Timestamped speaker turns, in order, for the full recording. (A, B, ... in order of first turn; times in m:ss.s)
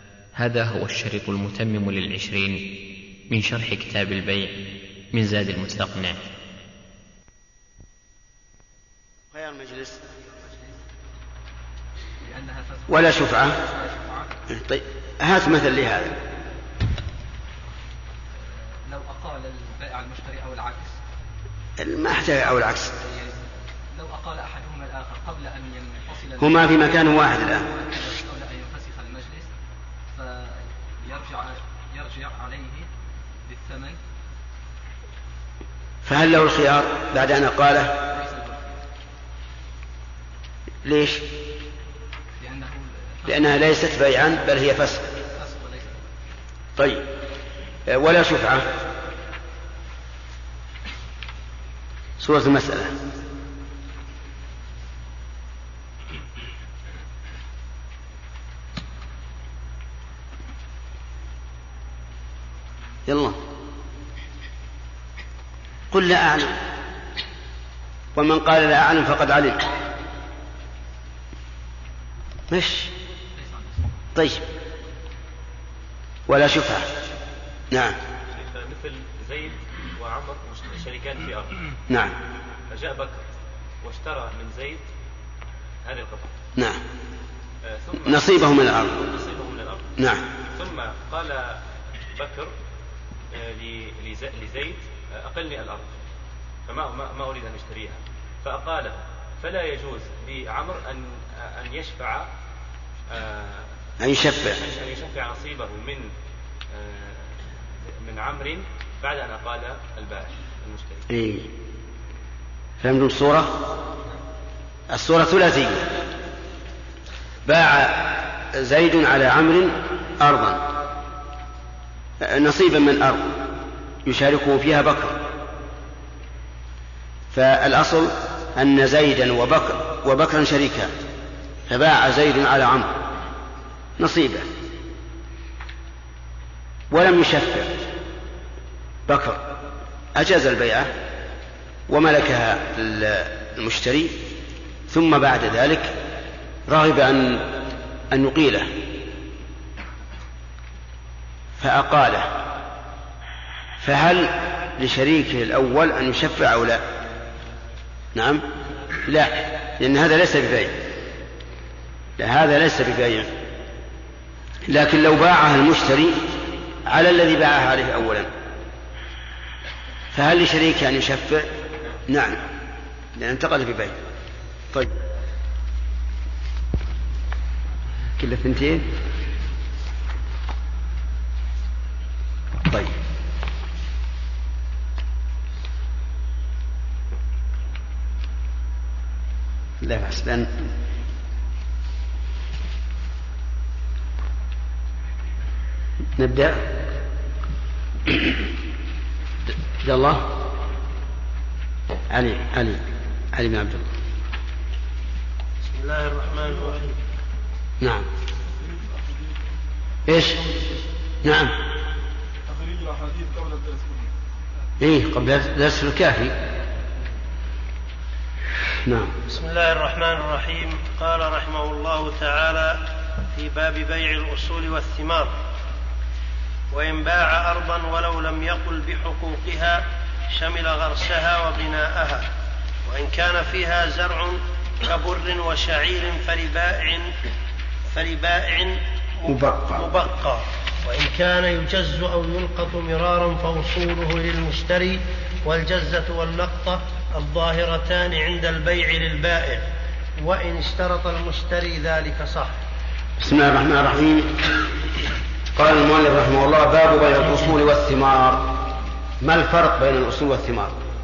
0:00.4-0:02.8 A
0:03.3-0:06.2 A
0:09.3-0:10.0 B
0:12.2-0:14.4 C
0:12.9-0:13.6 B
0:14.5-0:16.2 B
0:18.4-0:21.0 C
0:21.8-0:22.9 B
0:22.9-0:23.4 C
0:23.9-0:29.5 C
0:26.4-0:27.6 B
0:30.1-0:32.9 C
0:33.5-0:34.0 C
0:36.0-0:38.0 B
0:38.0-0:38.8 C
0:40.8-0:41.2 B
0:42.4-0:43.6 C
0:43.2-0:45.1 B
0:45.4-0:46.0 C
0:46.8-0:47.1 B
0:47.9-0:48.7 B
0:52.2-0:52.9 B
1:03.1-1:03.4 B
1:05.9-1:06.6 B
1:08.1-1:09.7 B
1:12.5-1:12.9 B
1:13.3-1:13.9 C
1:14.1-1:14.4 B
1:16.3-1:16.9 B
1:17.7-1:18.0 B
1:18.3-1:21.6 D
1:21.9-1:22.2 B
1:22.7-1:23.2 D
1:23.8-1:24.9 D
1:25.8-1:26.3 D
1:26.6-1:26.8 B
1:27.7-1:32.5 D
1:28.0-1:29.0 B
1:30.0-1:30.3 B
1:33.3-1:35.9 D
1:36.7-1:42.3 D
1:43.1-1:43.7 D
1:44.0-1:44.6 B
1:44.2-1:46.1 D
1:46.7-1:47.4 D
1:48.0-1:51.0 D
1:51.1-1:51.5 B
1:52.8-1:53.6 B
1:54.9-1:55.9 B
1:57.4-2:00.6 B
2:02.2-2:03.4 B
2:04.0-2:05.3 B
2:07.3-2:10.9 B
2:11.7-2:13.0 B
2:14.0-2:14.5 B
2:16.9-2:17.8 B
2:19.1-2:19.4 B
2:20.1-2:20.9 B
2:21.9-2:24.2 B
2:24.9-2:25.9 B
2:26.7-2:28.8 B
2:31.6-2:32.4 B
2:33.8-2:36.8 B
2:38.1-2:38.4 B
2:39.0-2:40.8 B
2:42.2-2:43.4 B
2:44.7-2:46.3 B
2:46.8-2:48.3 B
2:50.1-2:51.5 B
2:52.1-2:52.4 B
2:53.2-2:54.0 B
2:58.2-2:58.9 B
3:02.6-3:03.0 B
3:09.8-3:10.7 B
3:16.2-3:16.6 B
3:18.1-3:18.4 B
3:19.8-3:20.4 B
3:22.1-3:23.9 B
3:25.6-3:26.9 E
3:27.8-3:28.1 B
3:28.5-3:29.5 F
3:30.1-3:30.4 B
3:30.1-3:30.7 F
3:31.2-3:31.6 B
3:32.5-3:34.1 F
3:34.8-3:36.4 B
3:38.8-3:39.2 B
3:39.3-3:42.8 E
3:43.3-3:45.3 E
3:46.7-3:52.3 E
3:52.8-3:57.1 E
3:57.9-3:58.8 E
3:59.2-3:59.9 B
3:59.3-4:09.6 E
4:10.2-4:12.6 E
4:13.2-4:14.5 B
4:15.5-4:18.5 B
4:19.2-4:20.8 B